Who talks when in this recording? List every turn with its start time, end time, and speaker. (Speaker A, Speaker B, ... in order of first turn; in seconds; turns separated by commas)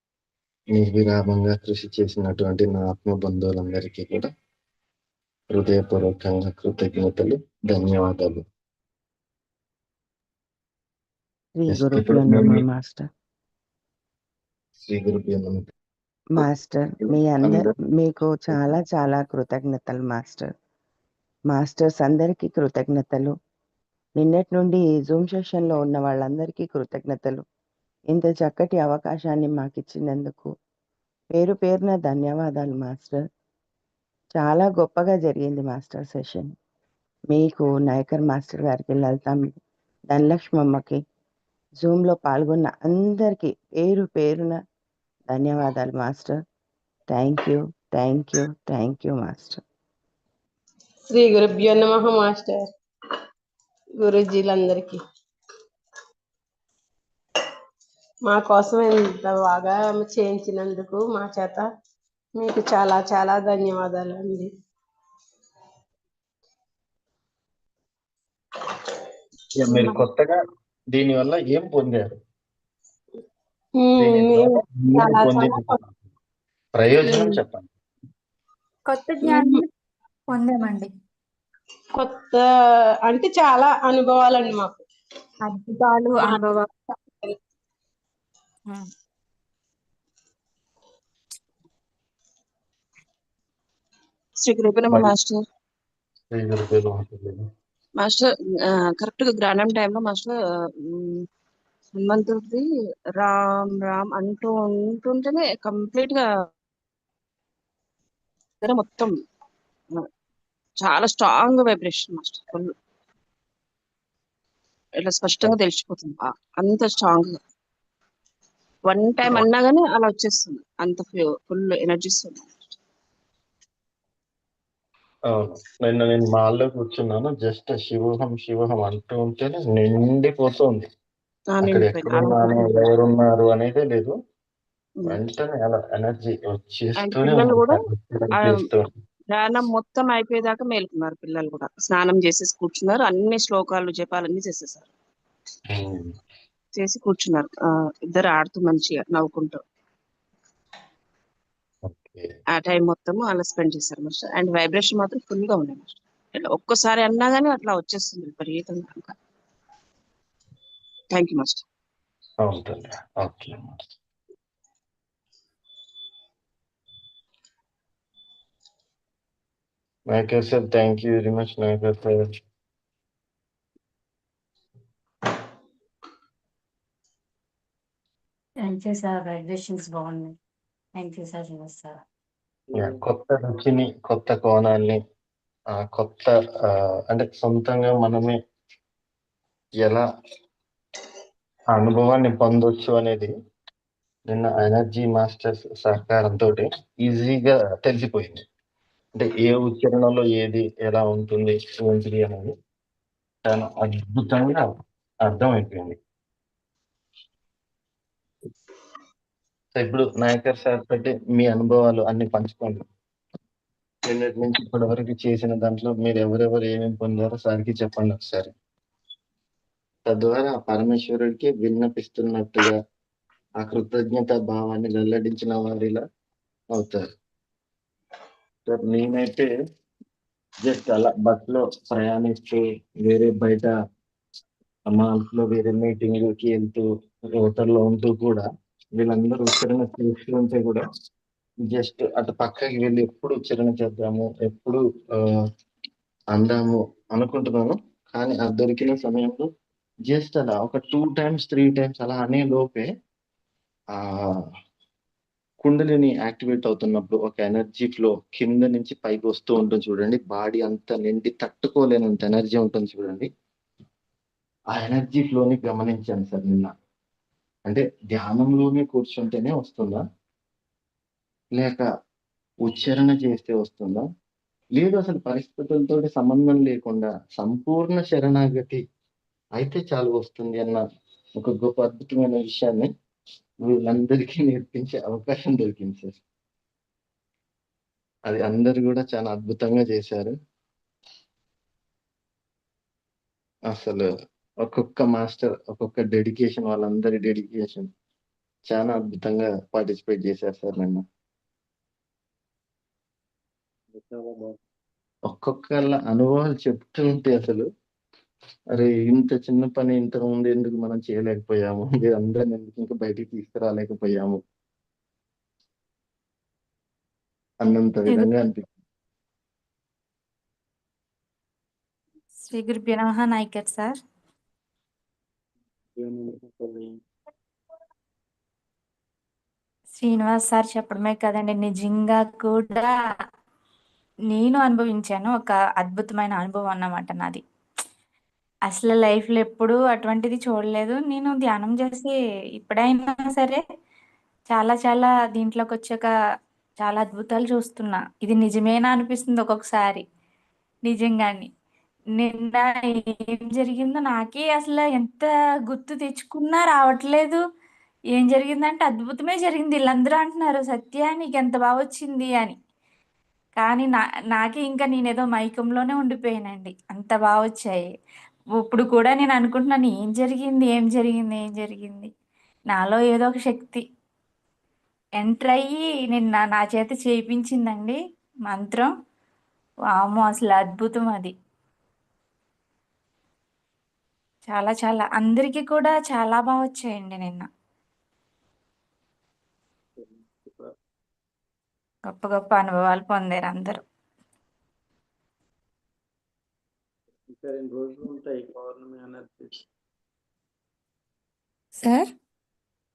Speaker A: 0.7-4.3, Speaker A: 5.5-8.4, Speaker B: 11.6-13.1, Speaker A: 11.7-12.6, Speaker A: 14.9-15.7, Speaker B: 16.4-20.5, Speaker A: 17.0-17.7, Speaker B: 21.5-23.3, Speaker B: 24.2-27.4, Speaker B: 28.1-30.5, Speaker B: 31.4-33.2, Speaker B: 34.4-36.5, Speaker B: 37.3-39.5, Speaker B: 40.1-41.0, Speaker B: 41.8-44.6, Speaker B: 45.3-46.4, Speaker B: 47.1-49.6, Speaker C: 51.1-52.6, Speaker C: 54.0-55.0, Speaker C: 58.3-61.7, Speaker C: 62.4-64.5, Speaker A: 69.6-70.3, Speaker A: 70.9-72.2, Speaker C: 73.8-75.8, Speaker A: 74.0-75.7, Speaker A: 76.8-77.7, Speaker C: 77.1-77.4, Speaker D: 78.9-79.7, Speaker C: 79.3-79.6, Speaker D: 80.3-80.9, Speaker C: 81.9-82.5, Speaker C: 83.1-84.8, Speaker D: 85.5-86.7, Speaker E: 94.4-95.4, Speaker A: 96.3-97.4, Speaker E: 98.0-100.3, Speaker E: 100.9-101.2, Speaker E: 102.0-102.6, Speaker E: 103.2-106.3, Speaker E: 108.6-109.1, Speaker E: 110.8-112.7, Speaker E: 115.0-117.3, Speaker E: 118.9-122.5, Speaker A: 125.3-130.9, Speaker E: 131.6-132.9, Speaker A: 131.6-134.1, Speaker A: 135.1-138.9, Speaker E: 137.0-138.6, Speaker E: 139.3-144.9, Speaker A: 145.7-146.1, Speaker E: 146.8-147.5, Speaker E: 148.1-149.6, Speaker A: 151.9-152.3, Speaker E: 152.5-159.2, Speaker E: 161.1-161.6, Speaker A: 162.4-163.8, Speaker A: 170.1-172.1, Speaker F: 178.6-180.3, Speaker F: 180.9-182.0, Speaker G: 182.7-183.0, Speaker A: 182.8-185.0, Speaker A: 185.8-188.3, Speaker A: 191.7-193.3, Speaker A: 194.3-198.4, Speaker A: 199.2-202.5, Speaker A: 203.5-204.7, Speaker A: 205.3-206.0, Speaker A: 209.8-212.8, Speaker A: 214.1-218.5, Speaker A: 220.1-222.7, Speaker A: 223.6-226.0, Speaker A: 226.7-227.1, Speaker A: 228.7-229.5, Speaker A: 230.6-233.7, Speaker A: 234.9-236.8, Speaker A: 237.4-238.4, Speaker A: 239.0-240.8, Speaker A: 241.7-244.8, Speaker A: 246.3-249.5, Speaker A: 250.1-252.9, Speaker A: 253.9-254.3, Speaker A: 255.6-263.3, Speaker A: 264.7-266.7, Speaker A: 267.7-270.0, Speaker A: 271.5-271.9, Speaker A: 272.6-274.1, Speaker A: 274.8-278.8, Speaker A: 279.6-280.8, Speaker A: 281.4-282.9, Speaker A: 283.7-286.2, Speaker A: 288.3-290.3, Speaker A: 293.7-294.1, Speaker A: 294.6-297.9, Speaker A: 298.7-301.0, Speaker G: 303.9-304.6, Speaker A: 305.3-307.7, Speaker A: 308.8-314.4, Speaker A: 317.6-318.7, Speaker D: 322.5-324.0, Speaker G: 326.0-326.9, Speaker D: 330.0-332.9, Speaker D: 334.3-337.4, Speaker D: 338.7-343.6, Speaker D: 344.5-346.1, Speaker D: 346.8-350.0, Speaker D: 350.9-351.5, Speaker D: 352.2-357.4, Speaker D: 358.1-362.6, Speaker D: 363.6-367.9, Speaker D: 368.6-372.1, Speaker D: 372.7-373.8, Speaker D: 375.2-378.9, Speaker D: 380.0-381.3, Speaker D: 384.5-387.5, Speaker G: 390.0-390.7, Speaker D: 392.1-393.8, Speaker G: 397.3-399.6, Speaker D: 401.8-402.1